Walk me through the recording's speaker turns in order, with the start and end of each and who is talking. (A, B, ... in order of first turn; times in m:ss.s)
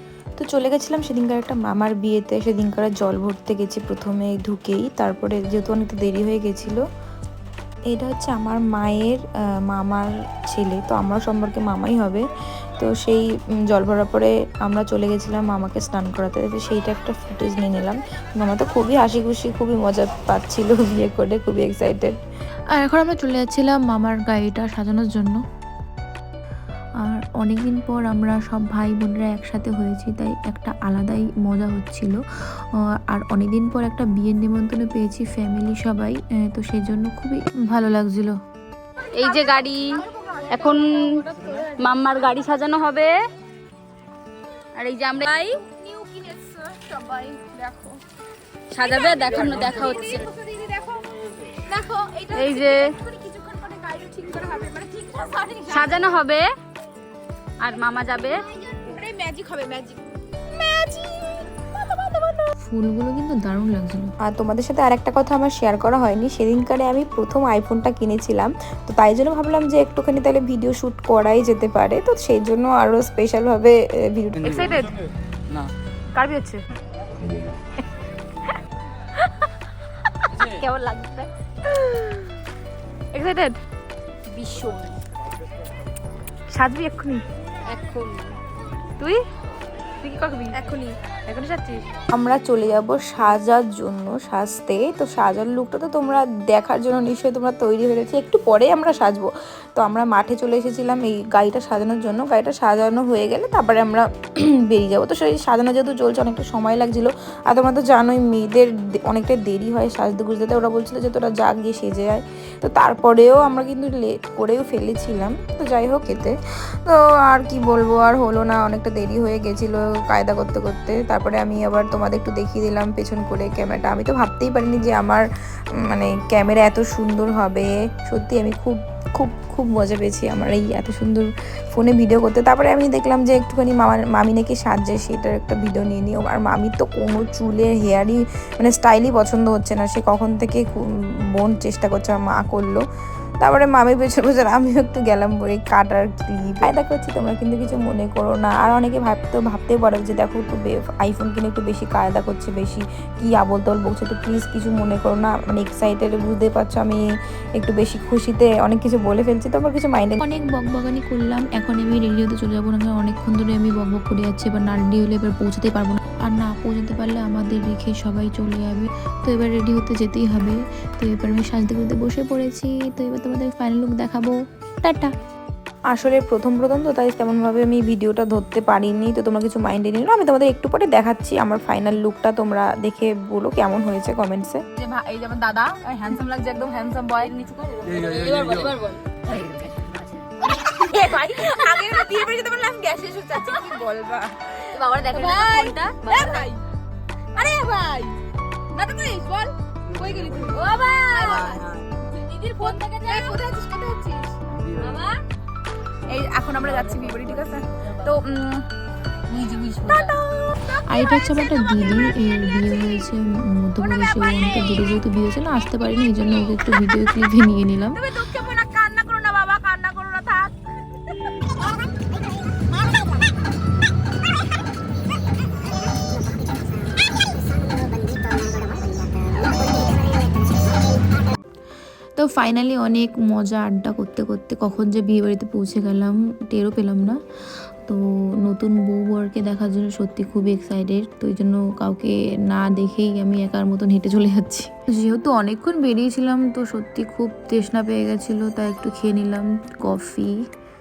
0:00.4-0:06.8 A
0:07.9-0:22.2 A
0:22.8-0:25.4 B
0:27.0-0:32.2 B
0:33.1-0:38.4 B
0:39.0-0:41.9 C
0:39.1-0:41.2 D
0:41.8-0:43.1 D
0:44.8-0:45.6 D
0:45.2-0:48.0 C
0:48.7-0:50.2 D
0:48.8-0:51.0 C
0:51.7-0:56.0 C
0:52.3-0:52.9 D
0:55.7-0:56.4 D
0:57.6-0:58.4 D
0:58.3-1:02.5 C
1:02.6-1:04.1 B
1:04.2-1:14.9 A
1:16.2-1:16.6 D
1:20.4-1:21.3 D
1:23.2-1:23.5 D
1:24.4-1:24.9 D
1:27.7-1:28.3 D
1:30.0-1:30.6 D
1:30.5-1:31.8 C
1:32.1-1:56.3 A
1:56.8-2:05.2 A
2:05.8-2:20.8 A
2:21.3-2:22.8 A
2:23.4-2:37.0 A
2:37.6-2:40.2 A
2:40.2-2:55.1 B
2:55.9-3:04.6 A
3:04.8-3:12.1 D
3:10.8-3:14.5 C
3:14.6-3:16.5 D
3:15.1-3:16.6 C
3:17.3-3:18.2 C
3:18.7-3:24.4 C
3:20.5-3:21.6 D
3:22.6-3:23.4 D
3:24.8-3:25.1 D
3:26.1-3:28.3 C
3:29.3-3:30.2 D
3:29.9-3:32.2 C
3:30.8-3:38.0 B
3:33.9-3:34.8 C
3:37.9-3:40.5 C
3:46.1-3:46.6 C
3:47.5-3:51.0 C
3:52.2-3:57.2 B
3:57.8-4:10.4 B